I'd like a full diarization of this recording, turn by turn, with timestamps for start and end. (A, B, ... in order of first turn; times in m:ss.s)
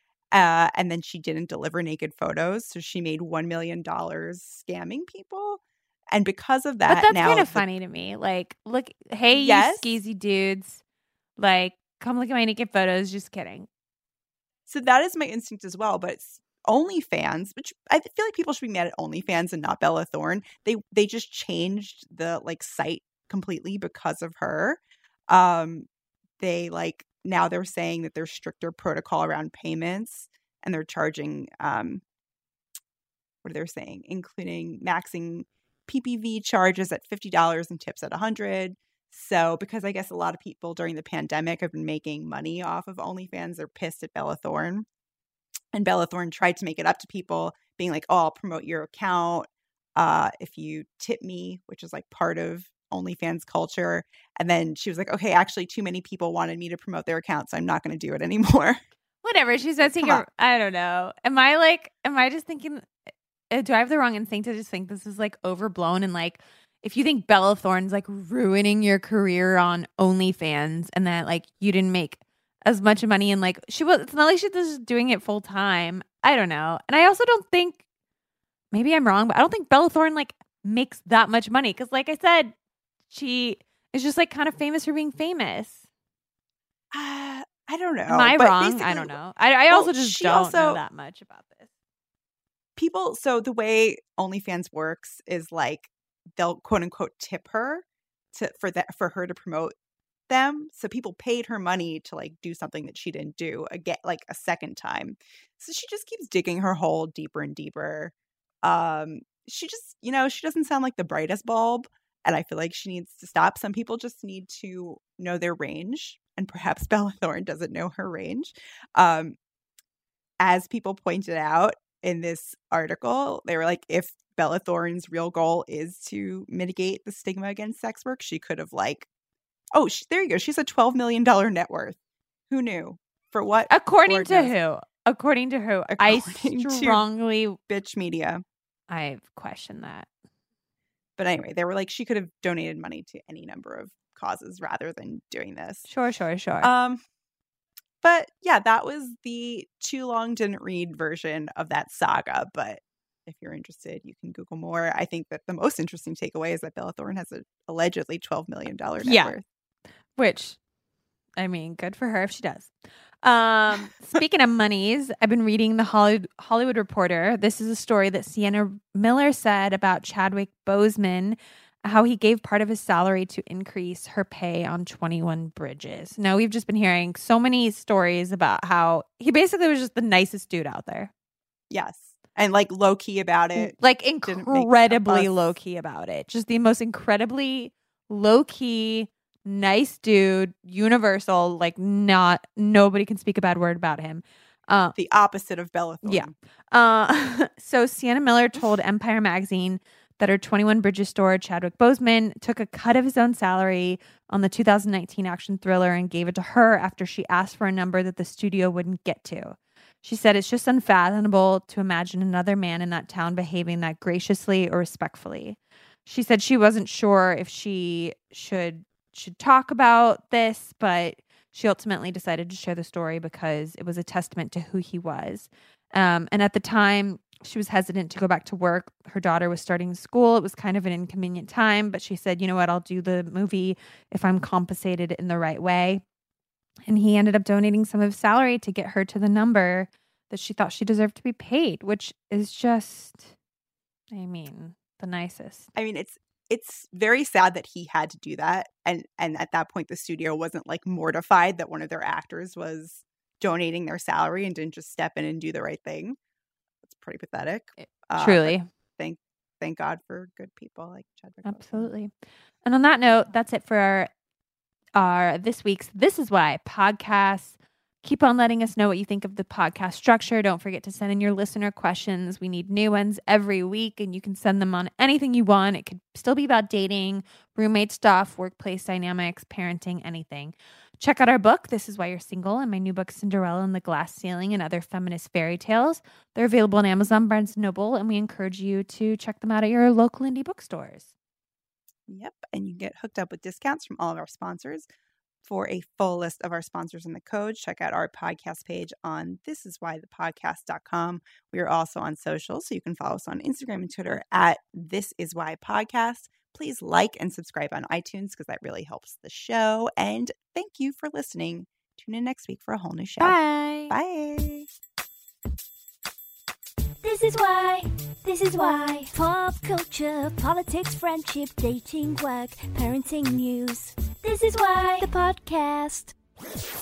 0:00.3-0:07.6 A
0:06.9-0:10.8 B
0:09.3-0:10.0 A
0:11.4-0:13.7 B
0:14.7-0:25.9 A
0:26.4-0:32.0 A
0:33.4-0:44.8 A
0:45.7-0:58.8 A
0:59.2-1:02.9 B
0:59.8-1:00.2 A
1:03.5-1:17.8 B
1:18.7-1:22.5 B
1:23.1-1:25.8 B
1:26.9-1:29.2 A
1:28.1-1:31.7 B
1:29.7-1:30.8 A
1:32.8-1:39.7 A
1:40.3-1:59.4 A
2:00.4-2:09.1 A
2:09.7-2:12.0 A
2:12.5-2:14.5 A
2:13.7-2:17.6 B
2:15.9-2:17.0 A
2:17.7-2:18.4 A
2:18.9-2:20.1 B
2:21.2-2:25.9 A
2:25.9-2:26.7 B
2:26.6-2:27.0 A
2:28.0-2:39.4 A
2:39.0-2:39.4 B
2:40.2-2:40.6 B
2:41.4-3:01.1 B
3:01.7-3:05.6 A
3:03.5-3:14.9 B
3:14.9-3:16.3 A
3:16.0-3:56.0 B
3:56.9-4:03.3 B
4:04.1-4:05.7 B
4:05.7-4:16.2 A
4:16.8-4:21.9 A
4:17.8-4:18.7 B
4:21.4-4:22.1 B
4:22.6-4:24.1 B
4:25.0-4:51.1 B
4:52.1-4:54.9 A
4:55.4-5:14.7 A
5:13.2-5:13.9 B
5:17.0-5:26.1 C